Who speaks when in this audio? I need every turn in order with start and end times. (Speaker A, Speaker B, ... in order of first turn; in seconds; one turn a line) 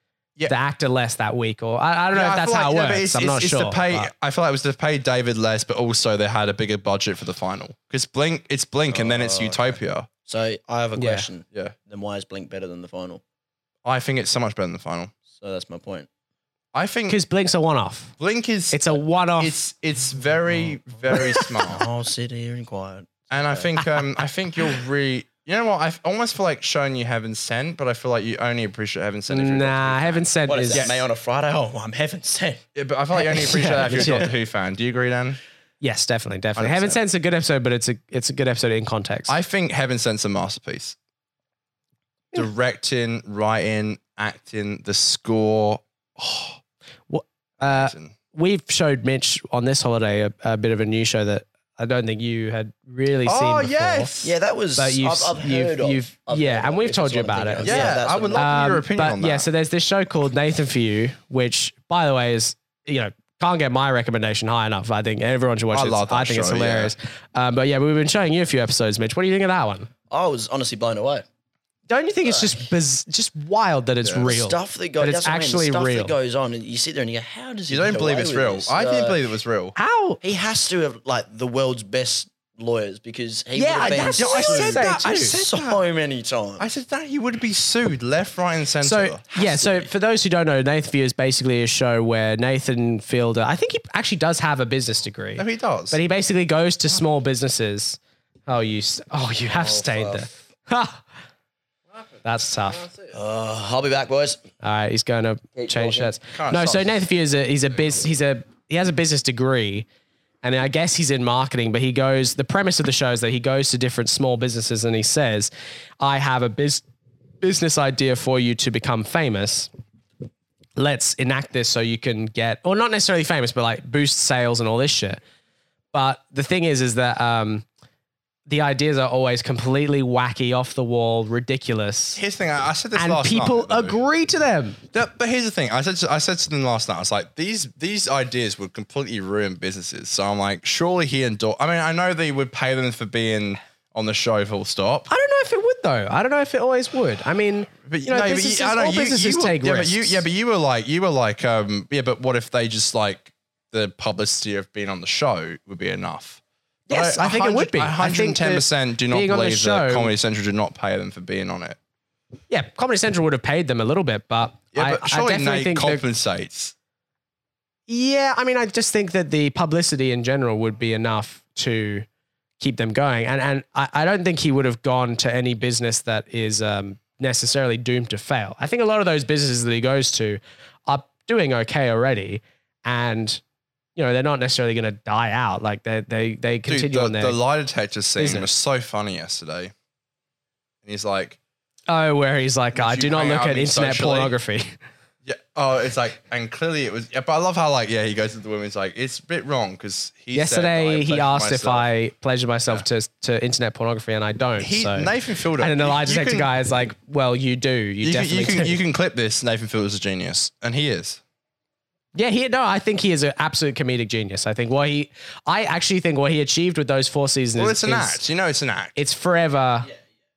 Speaker A: 0.5-4.1
Speaker B: 2.1-10.1
Speaker C: 8.9-13.2
Speaker A: 10.9-11.3
Speaker B: 13.8-15.1
Speaker C: 15.3-16.1
Speaker B: 16.7-17.2
Speaker A: 17.1-18.1
Speaker B: 18.2-21.9
Speaker A: 18.7-19.6
Speaker C: 21.1-23.8
Speaker A: 21.1-21.4
Speaker B: 23.3-31.0
Speaker A: 29.3-30.9
Speaker C: 30.4-32.6
Speaker B: 32.8-35.4
Speaker A: 33.1-34.3
Speaker A: 35.8-39.3
Speaker B: 36.5-37.0
Speaker B: 39.3-41.0
Speaker B: 42.3-46.6
Speaker A: 47.1-54.1
Speaker B: 47.6-48.1
Speaker B: 53.2-54.3
Speaker C: 54.2-58.5
Speaker A: 54.8-69.9
Speaker B: 57.6-59.5
Speaker B: 65.7-66.9
Speaker C: 70.1-71.2
Speaker A: 71.9-76.1
Speaker C: 72.2-72.6
Speaker C: 74.2-79.3
Speaker B: 77.7-79.7
Speaker A: 79.8-80.2
Speaker C: 80.2-86.7
Speaker A: 83.5-85.4
Speaker B: 83.8-85.8
Speaker B: 86.6-89.2
Speaker A: 88.8-101.0
Speaker C: 89.3-89.8
Speaker B: 95.4-96.0
Speaker C: 99.4-100.3
Speaker A: 102.2-102.9
Speaker B: 102.6-103.2
Speaker C: 103.1-104.4
Speaker A: 104.6-109.8
Speaker C: 105.5-106.1
Speaker B: 106.3-107.0
Speaker A: 110.4-116.8
Speaker A: 117.4-119.7
Speaker A: 120.8-125.2
Speaker A: 125.9-127.6
Speaker A: 128.5-132.2
Speaker B: 132.2-134.0
Speaker A: 132.9-134.8
Speaker B: 134.9-145.1
Speaker A: 145.1-150.2
Speaker B: 147.8-161.8
Speaker A: 156.9-160.1
Speaker A: 162.5-166.0
Speaker B: 164.7-166.7
Speaker A: 167.9-172.1
Speaker A: 172.6-183.4
Speaker A: 183.9-187.4
Speaker B: 186.7-189.7
Speaker A: 188.2-188.5
Speaker B: 190.8-191.4
Speaker A: 191.9-194.7
Speaker B: 192.7-194.3
Speaker B: 195.2-201.9
Speaker A: 200.3-208.8
Speaker B: 204.6-206.5
Speaker B: 208.0-211.2
Speaker A: 212.1-218.2
Speaker B: 217.6-218.9
Speaker A: 218.9-219.9